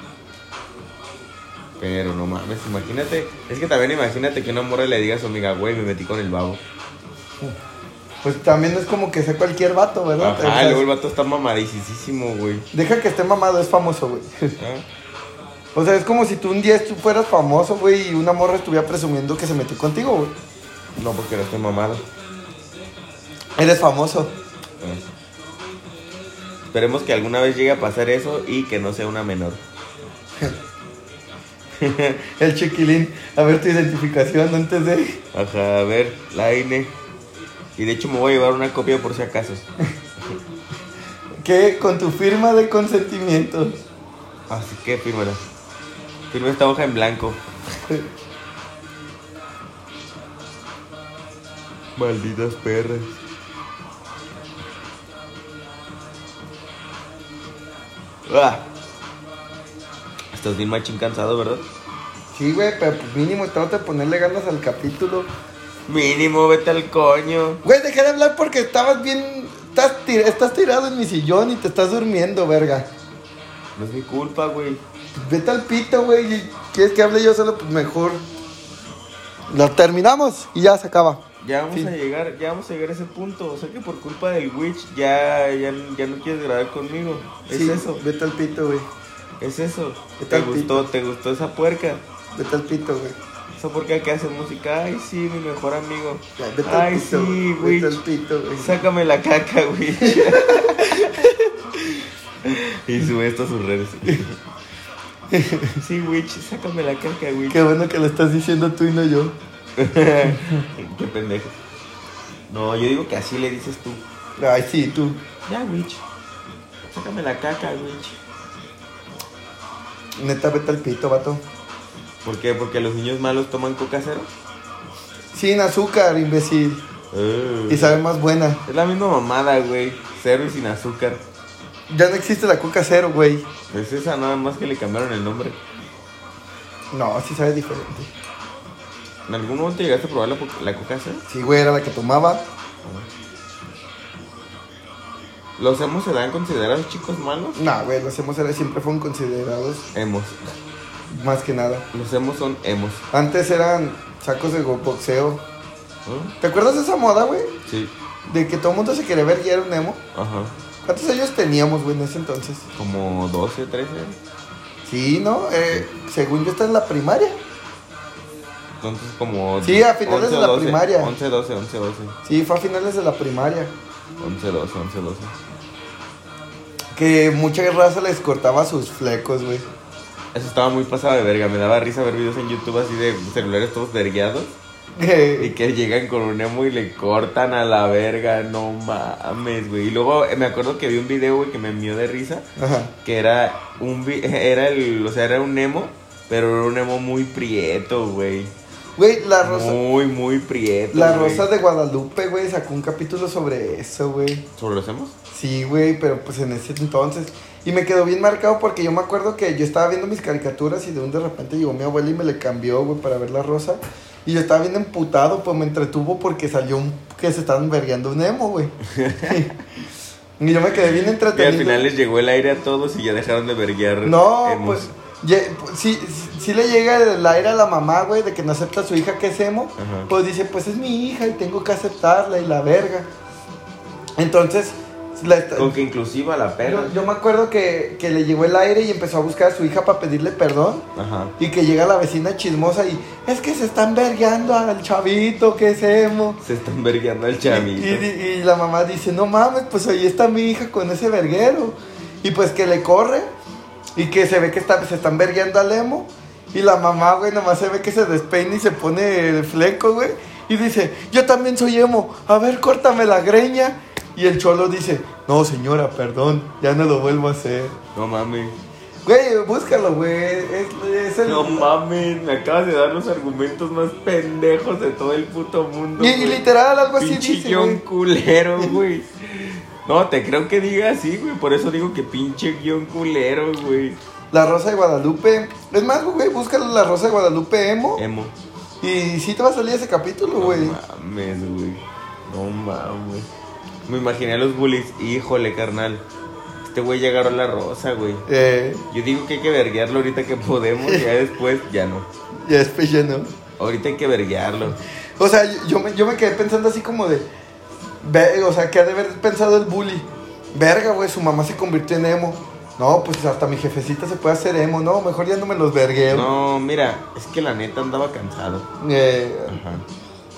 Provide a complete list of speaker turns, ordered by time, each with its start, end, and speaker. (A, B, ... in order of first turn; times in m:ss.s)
0:01.8-0:06.6 A
0:08.2-0:10.8 B
0:10.2-0:12.7 A
0:12.7-0:14.6 B
0:14.6-0:14.8 A
0:15.8-0:20.4 B
0:21.0-0:22.0 A
0:23.6-0:24.3 B
0:24.8-0:25.1 A
0:26.7-0:29.6 A
0:31.8-0:32.1 A
0:32.2-0:35.2 B
0:35.3-0:37.0 A
0:37.8-0:39.7 A
0:41.4-0:43.8 B
0:44.5-0:45.4 A
0:46.3-0:47.4 A
0:52.0-0:53.2 A
0:58.3-0:58.7 A
1:00.3-1:01.7 A
1:02.3-1:05.3 B
1:05.9-1:07.6 A
1:07.6-1:12.9 B
1:13.8-1:14.8 A
1:15.2-1:18.2 B
1:19.5-1:21.9 B
1:21.4-1:28.0 A
1:27.5-1:28.9 B
1:29.4-1:32.0 A
1:30.2-1:30.9 B
1:32.4-1:33.2 B
1:33.6-1:38.0 A
1:36.4-1:38.8 B
1:38.6-1:41.3 A
1:40.0-1:41.5 B
1:42.4-1:44.4 A
1:45.3-1:45.8 B
1:45.8-1:47.6 A
1:47.5-1:49.4 B
1:49.8-1:51.6 A
1:50.3-1:50.6 B
1:52.5-1:54.0 A
1:54.4-1:55.2 B
1:55.5-1:56.0 A
1:56.9-1:58.2 A
2:00.2-2:01.4 B
2:02.2-2:04.3 A
2:05.3-2:06.8 B
2:07.1-2:08.0 A
2:07.7-2:08.6 B
2:08.7-2:11.2 A
2:11.9-2:13.5 B
2:13.7-2:15.6 A
2:16.9-2:18.1 B
2:19.3-2:21.2 A
2:21.3-2:22.4 B
2:25.6-2:27.6 A
2:27.6-2:29.8 B
2:29.9-2:30.4 A
2:31.1-2:31.9 B
2:31.9-2:33.0 A
2:33.1-2:35.4 B
2:36.1-2:36.3 A
2:36.4-2:37.5 B
2:37.7-2:37.9 A
2:38.3-2:40.0 B
2:40.1-2:40.5 A
2:40.8-2:42.6 B
2:42.8-2:44.2 A
2:44.8-2:47.4 B
2:48.8-2:52.2 A
2:49.6-2:51.1 B
2:52.3-2:53.7 B
2:54.2-2:55.4 A
2:57.0-2:59.7 B
3:00.3-3:04.5 A
3:05.0-3:05.5 B
3:05.4-3:12.5 A
3:12.6-3:12.9 B
3:13.0-3:18.5 A
3:19.0-3:19.8 B
3:19.4-3:21.5 A
3:20.9-3:24.5 B
3:24.6-3:25.2 A
3:25.3-3:39.5 B
3:38.8-3:39.6 A
3:40.4-3:41.9 B
3:41.3-3:44.9 A
3:44.0-3:53.1 B
3:49.8-3:50.1 A
3:54.2-3:55.8 B
3:55.6-3:57.0 A
3:56.6-4:00.9 B
4:01.0-4:01.3 A
4:01.4-4:06.4 B
4:06.4-4:08.1 A
4:07.5-4:13.3 B
4:14.0-4:27.8 B
4:28.0-4:28.6 A
4:29.0-4:31.7 B
4:31.2-4:36.4 A
4:36.0-4:37.8 B
4:37.0-4:44.0 A
4:44.3-4:48.0 B
4:48.0-4:48.4 A
4:48.8-4:50.8 B
4:50.4-4:53.3 A
4:53.9-4:56.0 A
4:56.7-4:58.3 A
4:58.3-4:58.8 B
4:58.9-5:02.1 A
5:02.4-5:03.3 B
5:03.6-5:04.8 A
5:05.2-5:07.3 B
5:08.0-5:16.3 B
5:16.1-5:18.7 A
5:18.8-5:19.6 B
5:19.5-5:19.8 A